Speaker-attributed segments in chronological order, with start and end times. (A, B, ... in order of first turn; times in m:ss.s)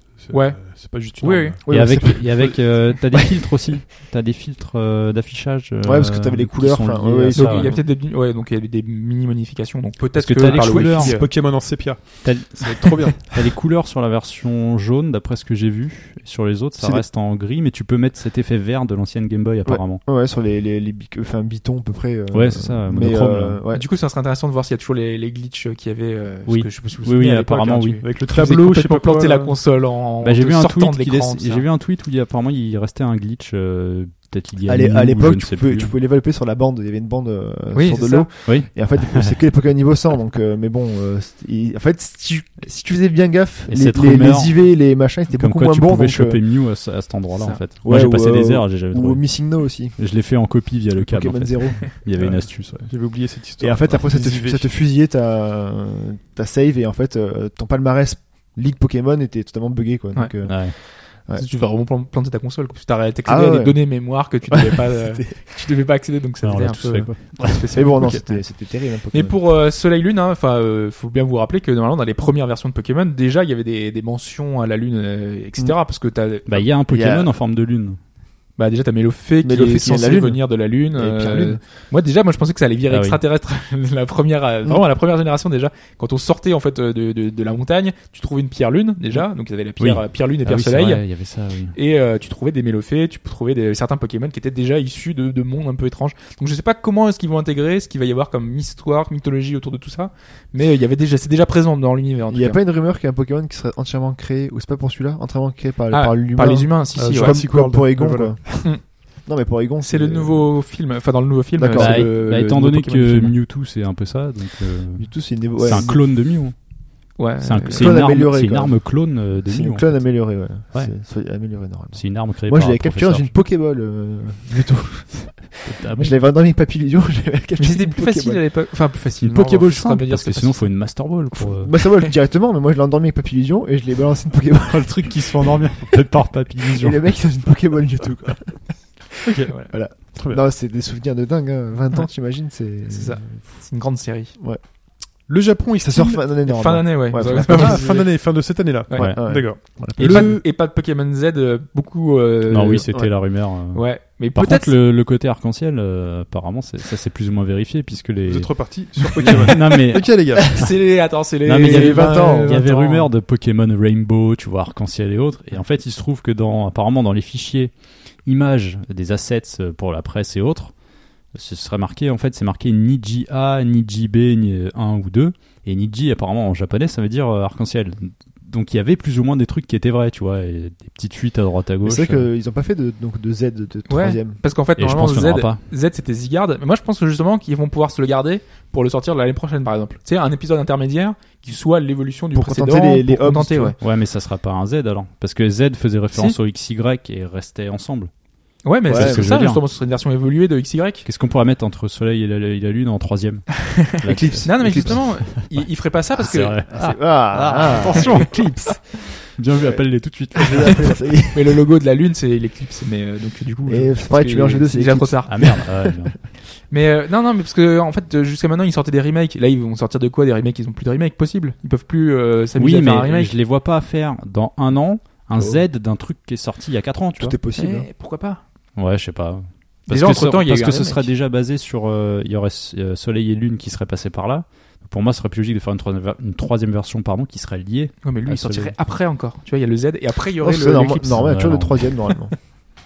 0:00.2-0:01.6 A
0:00.3-0:01.6 B
0:01.6-0:03.0 C
0:01.7-0:07.8 D
0:05.8-0:07.8 C
0:07.3-0:11.3 B
0:10.2-0:11.3 D
0:10.4-0:13.3 A
0:12.2-0:20.0 D
0:16.8-0:17.0 C
0:19.6-0:23.8 C
0:22.3-0:23.6 D
0:23.7-0:31.7 B
0:26.5-0:28.0 D
0:28.0-0:29.6 A
0:30.2-0:35.9 D
0:34.7-0:46.4 C
0:37.7-0:38.3 B
0:38.5-0:39.4 D
0:43.7-0:52.9 D
0:47.8-0:50.0 C
0:51.0-0:52.0 C
0:52.2-0:54.7 A
0:53.6-1:01.4 C
1:00.2-1:16.7 B
1:00.4-1:00.8 D
1:03.3-1:05.3 C
1:06.4-1:07.7 D
1:07.7-1:09.4 C
1:16.5-1:18.0 D
1:16.9-1:17.3 C
1:18.6-1:31.0 B
1:19.4-1:21.6 C
1:22.9-1:23.2 D
1:29.8-1:31.8 D
1:31.7-1:42.6 B
1:42.3-1:50.5 C
1:45.9-1:47.4 B
1:47.0-1:48.7 A
1:49.8-1:53.4 B
1:51.6-1:52.1 C
1:51.7-1:56.6 D
1:55.0-1:56.0 C
1:57.2-1:57.9 B
1:57.4-2:01.0 D
1:57.7-1:58.9 C
1:59.4-2:08.4 C
2:01.9-2:03.3 D
2:05.6-2:06.2 D
2:07.6-2:10.7 B
2:09.2-2:11.8 D
2:11.4-2:15.5 C
2:14.7-2:17.0 D
2:16.7-2:23.4 C
2:20.2-2:20.4 A
2:22.9-2:24.3 B
2:25.3-2:26.2 A
2:25.8-2:28.0 C
2:26.4-2:28.3 B
2:27.2-2:30.4 A
2:28.9-2:32.9 B
2:29.0-2:30.4 C
2:32.5-2:40.5 D
2:33.7-2:34.8 B
2:38.3-2:40.6 A
2:40.4-2:43.1 B
2:41.5-2:47.7 D
2:41.6-2:42.6 C
2:48.2-2:50.7 D
2:51.3-3:02.3 D
3:01.8-3:04.4 C
3:03.9-3:13.8 B
3:04.8-3:05.6 D
3:12.3-3:13.8 C
3:13.8-3:18.1 D
3:18.6-3:21.1 B
3:18.9-3:19.6 D
3:18.9-3:19.3 C
3:21.0-3:25.5 D
3:23.8-3:26.6 B
3:24.1-3:25.1 C
3:26.2-3:30.9 D
3:26.7-3:28.5 C
3:27.9-3:28.7 B
3:30.4-3:31.6 C
3:31.3-3:35.6 B
3:33.7-3:35.9 C
3:35.3-3:36.2 D
3:36.7-3:43.3 B
3:42.6-3:47.4 D
3:47.2-3:47.9 C
3:47.6-3:48.4 B
3:48.8-3:58.7 D
3:49.9-3:51.1 B
3:58.0-4:01.3 B
4:00.4-4:02.5 C
4:01.2-4:02.0 D